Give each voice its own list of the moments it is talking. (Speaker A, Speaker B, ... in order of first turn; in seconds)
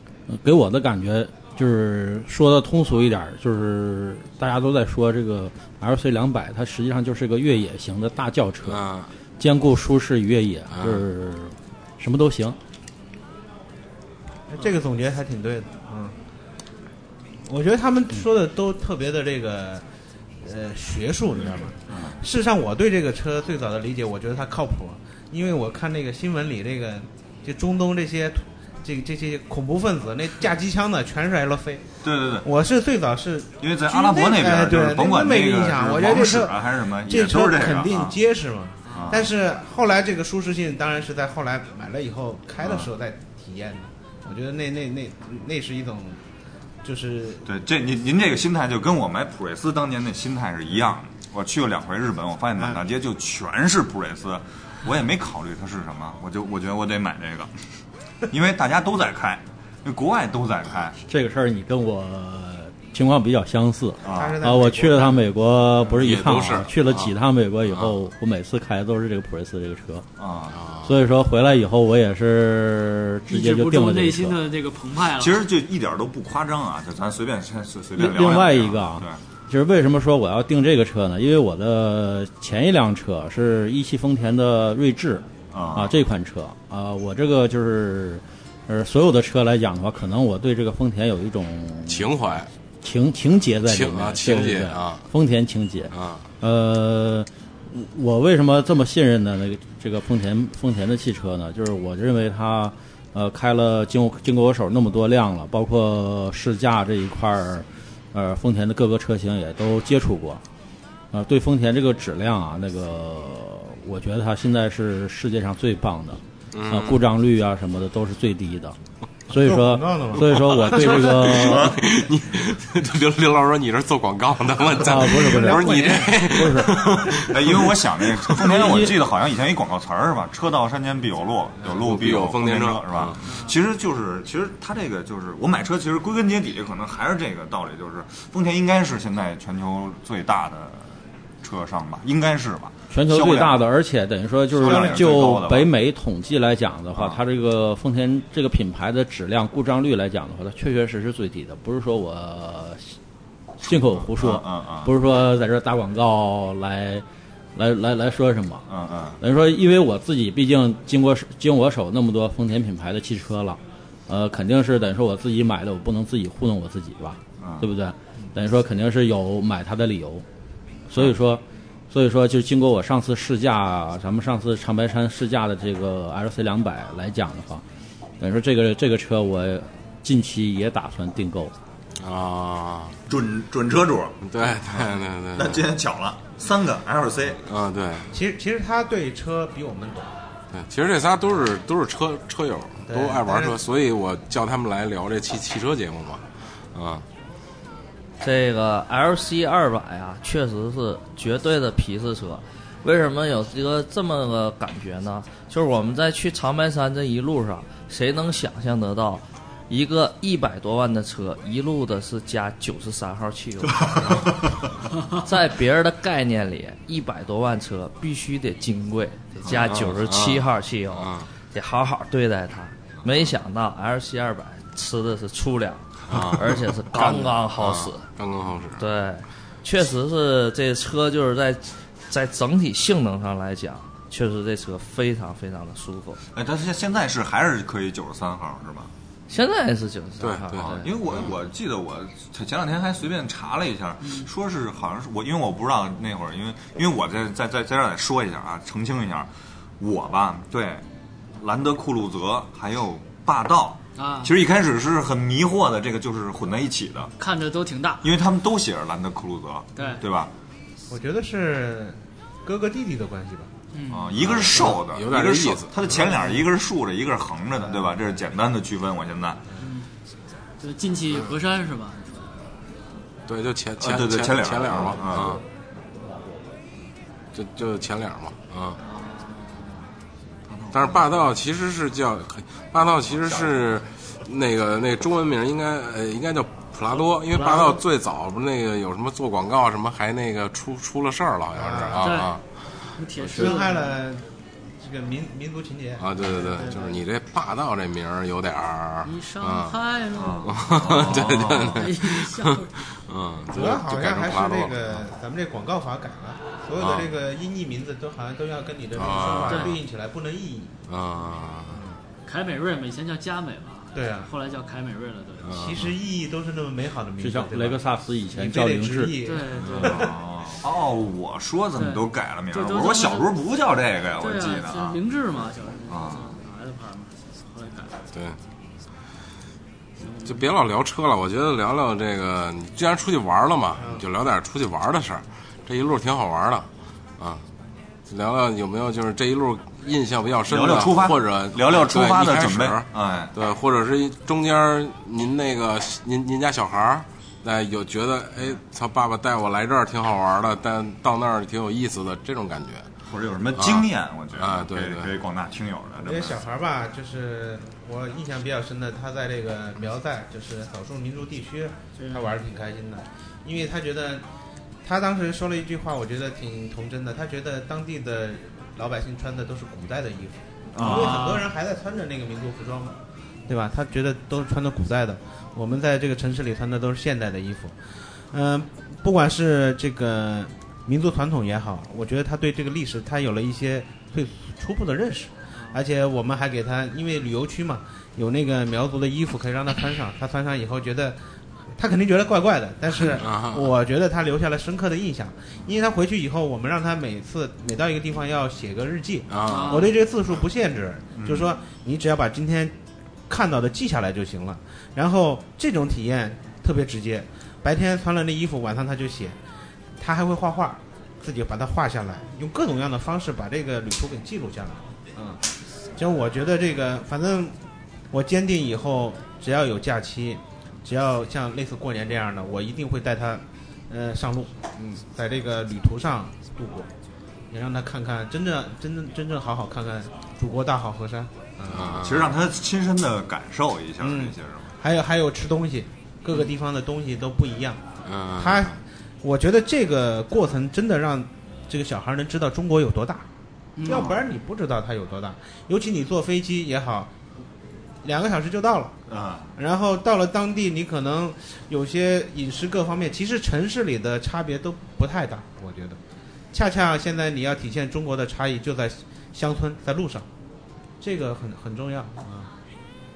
Speaker A: 0.3-8.8, 9.4-12.6, 61.1-70.0, 70.8-74.4, 78.0-92.2, 92.8-110.4, 111.1-118.8, 119.3-121.7, 124.8-126.8, 142.9-152.9, 153.6-158.7, 159.2-170.2, 170.9-177.6, 178.2-181.5, 317.2-319.2
Speaker B: 8.7-9.1, 10.7-11.1, 66.0-67.1, 70.5-70.9, 91.9-92.5, 93.7-95.0, 95.9-96.3, 116.5-117.0, 120.2-128.9, 131.7-133.2, 182.0-183.0, 184.2-185.7, 187.5-188.1, 190.5-197.1, 219.5-221.3, 226.1-228.8, 240.2-241.3, 264.2-265.8, 273.3-275.4, 277.3-278.8, 280.7-293.6, 296.0-299.8, 300.5-305.0, 306.8-307.1, 309.0-309.8, 310.9-311.8, 315.4-315.9, 319.7-320.0, 330.2-336.7, 337.2-337.4, 338.1-352.9, 353.6-355.1, 392.9-393.7, 399.3-399.9, 431.7-432.3, 438.1-438.7
Speaker C: 14.5-16.2, 17.5-19.9, 20.4-31.9, 32.4-46.2, 46.8-47.5, 64.1-65.3, 119.3-121.2, 125.3-126.1, 144.6-145.1, 188.1-190.2, 192.9-193.6, 260.9-263.5, 265.8-266.4, 267.6-268.0, 291.6-292.2, 293.3-294.3, 294.8-297.0, 303.5-310.7, 311.7-312.0, 313.9-314.3, 315.5-320.2, 333.8-334.1, 356.0-364.2, 364.8-372.9, 373.5-377.8, 378.3-391.2, 391.8-402.7, 403.3-409.4, 410.0-417.6, 418.1-426.9, 427.5-432.0, 434.0-437.8, 438.4-443.3, 443.8-447.1, 448.0-449.0, 449.6-456.0, 456.5-460.3, 461.0-462.5
Speaker D: 21.9-22.2, 32.0-32.5, 33.6-38.2, 38.9-39.3, 42.6-42.9, 47.5-57.5, 58.3-61.0, 64.0-64.4, 70.2-70.6, 75.2-79.2, 85.5-86.0, 121.3-121.8, 127.3-143.6, 144.6-145.7, 146.9-147.2, 153.7-154.9, 158.7-159.2, 167.4-167.7, 183.1-187.4, 236.3-238.9, 240.6-250.8, 251.4-257.1, 258.0-260.3, 263.9-269.4, 273.8-275.4, 280.5-281.3, 283.0-283.7, 300.2-301.9, 319.8-325.0, 325.9-326.3, 340.5-343.3, 353.1-356.4, 370.7-371.4, 401.2-401.6, 431.9-434.7, 443.9-444.2, 449.1-449.5
Speaker E: 38.9-39.1, 73.3-75.4, 133.2-133.6, 244.0-244.3, 254.0-254.3, 257.2-258.1, 259.8-260.0, 263.7-264.1, 269.6-269.9, 270.6-272.3, 278.8-279.7, 287.4-287.8, 292.0-292.4, 292.9-294.0, 299.0-301.1, 301.7-302.8, 309.4-309.8, 312.3-315.6, 319.2-320.1, 321.8-323.4, 324.2-328.0, 330.0-330.5, 362.0-362.4, 370.8-371.5, 385.5-385.8, 399.5-399.9, 443.8-444.1
Speaker F: 198.2-214.1, 215.2-228.1, 228.8-236.2, 239.3-240.9